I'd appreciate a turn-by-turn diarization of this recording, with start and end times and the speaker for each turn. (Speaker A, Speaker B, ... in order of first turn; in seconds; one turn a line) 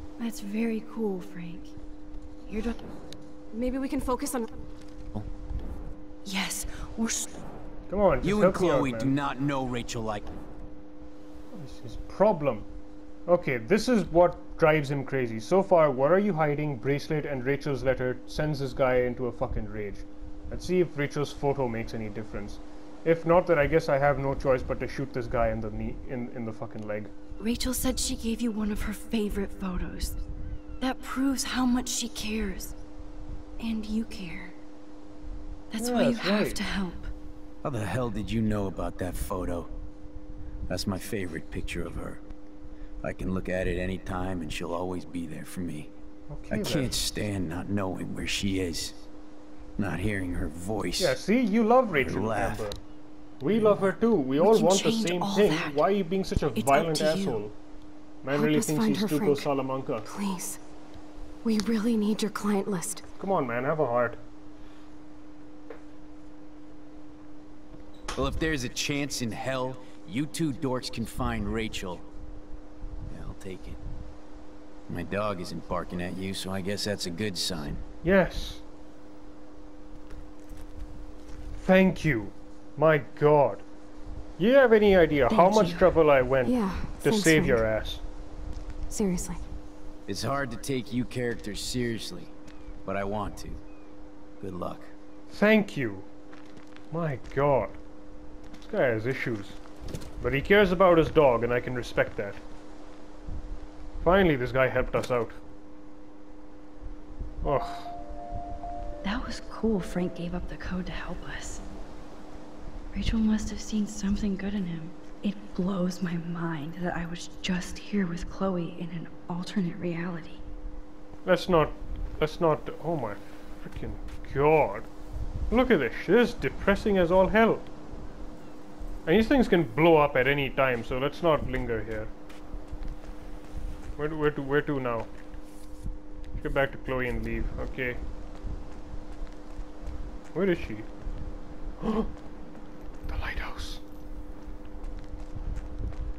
Speaker A: 0.2-1.8
Speaker A: 2.5-2.8
Speaker B: 3.5-4.5
Speaker A: 6.2-7.4
Speaker C: 7.9-9.2
Speaker D: 8.2-10.3
Speaker C: 11.5-12.7
Speaker C: 13.3-27.1
Speaker A: 27.4-30.2
Speaker A: 30.8-32.8
Speaker A: 33.6-34.5
Speaker A: 35.7-37.1
Speaker C: 35.8-36.6
Speaker D: 37.6-39.7
Speaker D: 40.7-42.2
Speaker D: 43.0-45.9
Speaker C: 46.3-47.0
Speaker D: 46.5-49.0
Speaker D: 49.8-51.2
Speaker C: 51.0-52.8
Speaker D: 52.0-52.6
Speaker C: 53.4-57.5
Speaker A: 54.4-55.8
Speaker A: 56.5-57.4
Speaker C: 58.2-60.1
Speaker B: 58.3-59.5
Speaker B: 60.0-60.6
Speaker B: 61.4-63.1
Speaker C: 63.2-64.2
Speaker D: 68.1-72.1
Speaker D: 73.1-73.8
Speaker D: 74.9-77.8
Speaker C: 78.0-78.6
Speaker C: 81.6-83.6
Speaker C: 84.4-88.0
Speaker A: 85.3-85.9
Speaker B: 86.5-87.6
Speaker B: 88.9-89.4
Speaker D: 90.1-92.3
Speaker D: 92.8-93.6
Speaker D: 94.4-94.9
Speaker C: 95.3-96.1
Speaker C: 96.9-97.8
Speaker C: 98.6-99.6
Speaker C: 100.2-102.4
Speaker C: 104.0-105.4
Speaker C: 107.4-108.0
Speaker A: 109.0-111.6
Speaker A: 112.9-120.4
Speaker C: 121.2-124.9
Speaker C: 125.5-127.6
Speaker C: 129.1-132.1
Speaker C: 134.0-135.1
Speaker C: 136.4-138.0
Speaker C: 140.3-140.9
Speaker C: 141.8-142.1
Speaker C: 143.1-143.8